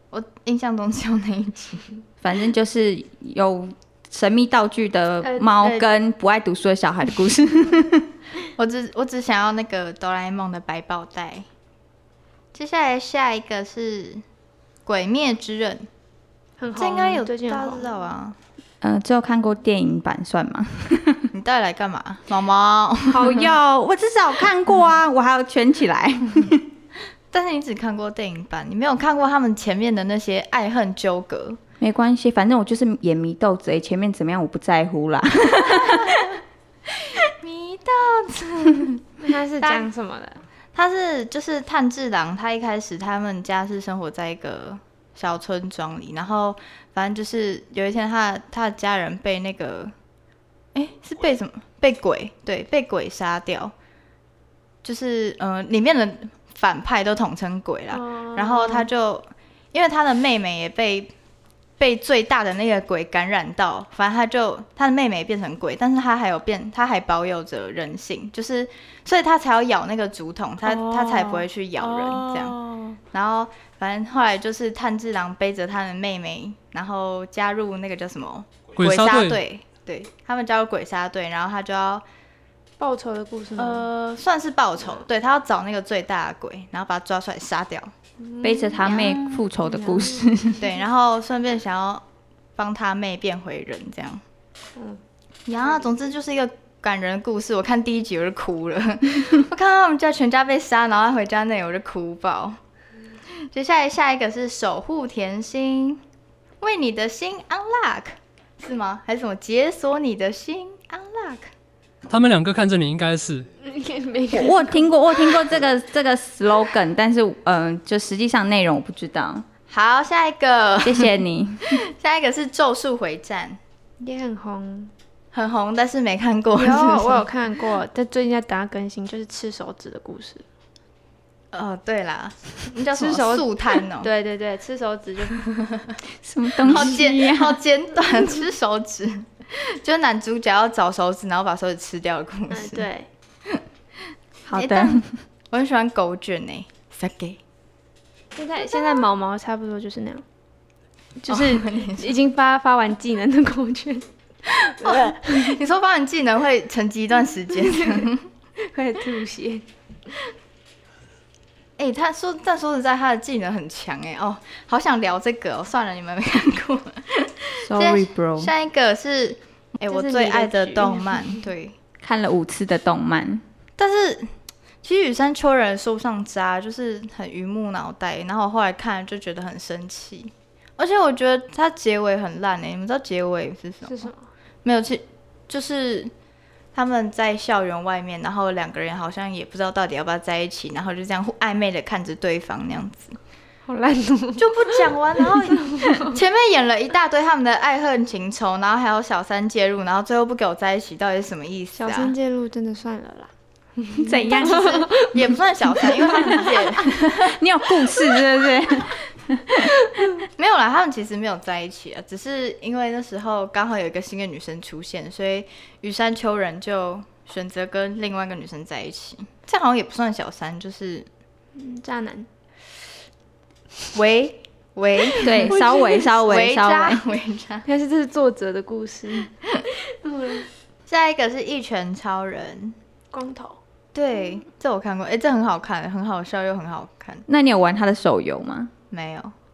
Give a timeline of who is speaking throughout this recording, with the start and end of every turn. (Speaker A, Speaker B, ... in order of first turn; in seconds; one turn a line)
Speaker A: 0.1-1.9
Speaker B: 2.2-8.1
Speaker C: 5.2-5.9
Speaker A: 8.6-11.5
Speaker A: 12.5-14.2
Speaker A: 14.8-15.9
Speaker C: 16.6-17.9
Speaker A: 16.7-18.4
Speaker B: 18.8-21.3
Speaker A: 21.3-23.5
Speaker B: 23.1-26.7
Speaker A: 27.3-31.6
Speaker B: 31.8-36.4
Speaker A: 37.2-39.0
Speaker C: 39.2-40.4
Speaker A: 40.7-49.9
Speaker A: 50.7-53.7
Speaker A: 54.8-61.1
Speaker C: 57.9-58.9
Speaker A: 61.8-72.6
Speaker C: 70.6-73.0
Speaker A: 73.1-82.0
Speaker D: 78.8-79.4
Speaker C: 82.8-84.1
Speaker A: 83.6-87.9
Speaker C: 88.2-90.3
Speaker B: 88.4-90.7
Speaker A: 88.8-89.4
Speaker A: 90.6-92.0
Speaker A: 92.6-94.2
Speaker A: 95.5-102.6
Speaker A: 103.4-106.0
Speaker A: 106.6-111.5
Speaker D: 112.1-113.5
Speaker C: 113.6-114.9
Speaker B: 114.3-119.5
Speaker A: 119.7-121.1
Speaker B: 120.8-121.8
Speaker A: 121.7-123.6
Speaker C: 124.0-124.9
Speaker A: 125.3-127.3
Speaker C: 126.5-130.5
Speaker A: 131.5-134.1
Speaker C: 132.9-135.4
Speaker A: 135.3-136.0
Speaker B: 136.2-137.6
Speaker A: 136.6-142.9
Speaker C: 142.5-143.1
Speaker B: 144.4-145.1
Speaker A: 144.5-147.4
Speaker C: 148.3-150.2
Speaker A: 148.7-149.0
Speaker C: 151.2-154.1
Speaker A: 151.3-152.1
Speaker C: 154.6-155.6
Speaker A: 154.8-158.3
Speaker C: 157.7-158.1
Speaker C: 158.6-160.3
Speaker A: 161.8-171.8
Speaker B: 167.6-168.5
Speaker C: 169.9-171.5
Speaker B: 172.0-173.4
Speaker A: 173.8-174.3
Speaker A: 174.8-184.1
Speaker C: 183.8-184.3
Speaker A: 184.6-186.1
Speaker A: 186.7-193.2
Speaker C: 193.7-196.2
Speaker A: 194.4-202.1
Speaker C: 201.8-205.2
Speaker B: 204.0-204.9
Speaker A: 204.3-208.1
Speaker C: 205.8-206.5
Speaker B: 206.1-209.7
Speaker C: 209.6-210.1
Speaker A: 210.3-221.1
Speaker C: 221.6-222.3
Speaker A: 223.9-227.7
Speaker B: 225.2-227.1
Speaker C: 225.4-226.1
Speaker C: 227.7-229.3
Speaker C: 229.9-230.5
Speaker A: 230.9-232.8
Speaker C: 233.1-233.6
Speaker A: 233.9-237.3
Speaker B: 237.3-238.7
Speaker A: 238.9-239.3